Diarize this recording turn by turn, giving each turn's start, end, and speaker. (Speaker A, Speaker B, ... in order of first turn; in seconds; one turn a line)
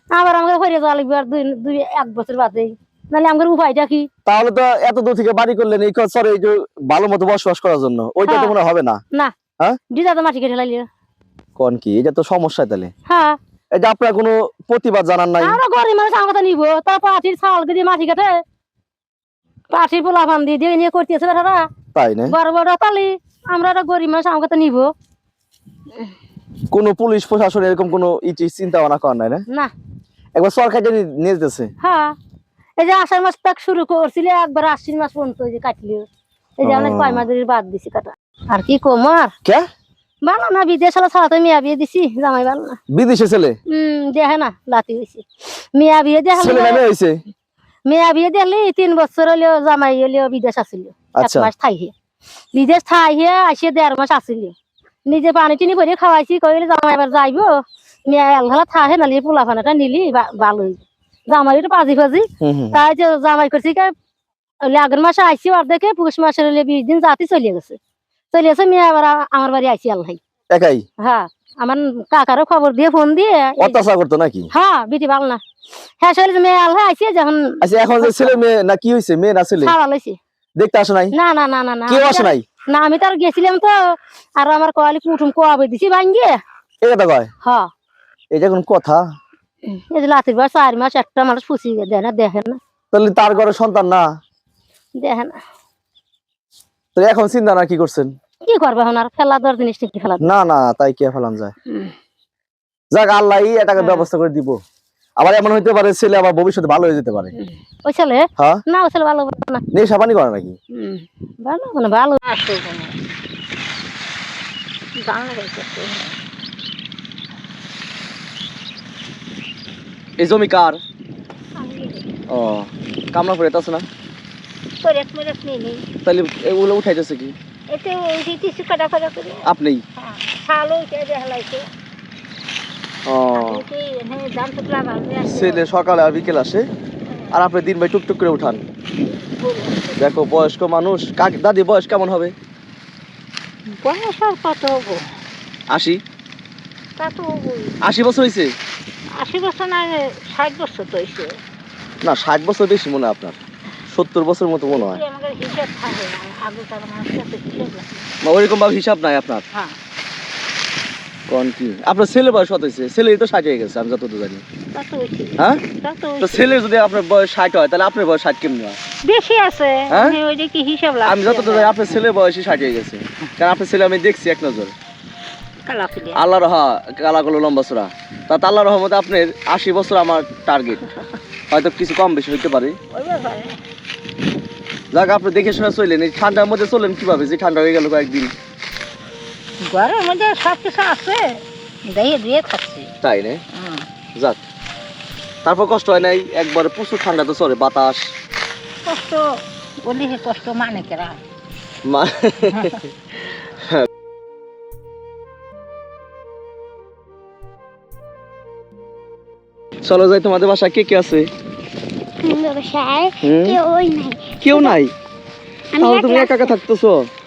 Speaker A: 0.1-4.1
Speaker B: 4.3-9.0
Speaker A: 8.3-8.5
Speaker A: 9.9-10.9
Speaker B: 11.6-12.9
Speaker A: 13.1-13.4
Speaker B: 13.8-15.6
Speaker A: 15.4-18.4
Speaker A: 19.7-21.6
Speaker B: 21.9-22.4
Speaker A: 22.3-24.9
Speaker B: 26.7-29.4
Speaker B: 30.4-31.7
Speaker A: 31.8-32.1
Speaker A: 32.8-36.1
Speaker A: 36.6-39.3
Speaker B: 36.6-37.2
Speaker A: 40.3-42.8
Speaker B: 42.9-43.6
Speaker A: 43.7-46.8
Speaker B: 46.4-47.2
Speaker A: 47.9-51.9
Speaker B: 51.1-51.5
Speaker A: 52.5-54.5
Speaker A: 55.1-57.5
Speaker A: 58.1-63.9
Speaker B: 62.4-62.8
Speaker A: 64.7-67.8
Speaker A: 68.3-70.2
Speaker B: 70.5-70.8
Speaker A: 71.0-73.8
Speaker B: 73.6-74.5
Speaker A: 74.5-75.4
Speaker A: 76.0-78.3
Speaker B: 77.6-79.7
Speaker A: 79.6-80.2
Speaker B: 80.6-81.1
Speaker A: 81.1-83.8
Speaker B: 81.9-82.4
Speaker A: 84.4-86.3
Speaker B: 86.8-87.3
Speaker A: 87.4-87.7
Speaker B: 88.3-89.0
Speaker A: 89.7-92.6
Speaker B: 92.9-94.1
Speaker A: 95.0-95.3
Speaker B: 97.0-98.1
Speaker A: 98.5-100.2
Speaker B: 100.2-101.5
Speaker B: 102.9-104.6
Speaker A: 103.8-104.1
Speaker B: 105.2-107.3
Speaker A: 107.8-109.6
Speaker B: 108.4-108.6
Speaker B: 109.7-110.6
Speaker A: 110.8-112.2
Speaker C: 112.2-113.0
Speaker C: 115.0-116.1
Speaker B: 120.2-120.8
Speaker C: 121.6-122.1
Speaker B: 122.3-123.9
Speaker C: 124.8-125.8
Speaker B: 126.0-127.3
Speaker C: 127.7-129.4
Speaker B: 129.4-129.8
Speaker C: 130.0-131.7
Speaker B: 133.1-133.7
Speaker C: 133.3-135.6
Speaker B: 135.2-136.7
Speaker B: 137.3-138.6
Speaker C: 139.1-140.0
Speaker B: 140.0-142.3
Speaker C: 143.8-145.1
Speaker B: 145.7-146.0
Speaker C: 147.0-147.8
Speaker B: 147.8-148.5
Speaker C: 149.2-151.3
Speaker B: 152.0-155.0
Speaker C: 154.7-158.1
Speaker B: 158.2-159.4
Speaker B: 161.3-164.4
Speaker C: 164.7-166.6
Speaker B: 166.2-168.8
Speaker C: 169.1-172.0
Speaker B: 169.9-170.2
Speaker B: 171.1-174.7
Speaker C: 175.7-176.2
Speaker B: 176.1-180.9
Speaker B: 181.5-182.8
Speaker C: 182.9-183.6
Speaker B: 184.9-188.3
Speaker C: 189.7-191.2
Speaker C: 191.9-192.9
Speaker B: 193.0-193.4
Speaker C: 193.6-193.9
Speaker B: 195.4-198.1
Speaker C: 198.9-199.2
Speaker C: 199.8-201.2
Speaker B: 201.9-203.9
Speaker B: 209.8-211.3
Speaker D: 212.2-214.8
Speaker B: 213.2-213.6
Speaker B: 214.4-214.9
Speaker D: 215.8-216.5
Speaker B: 215.8-217.0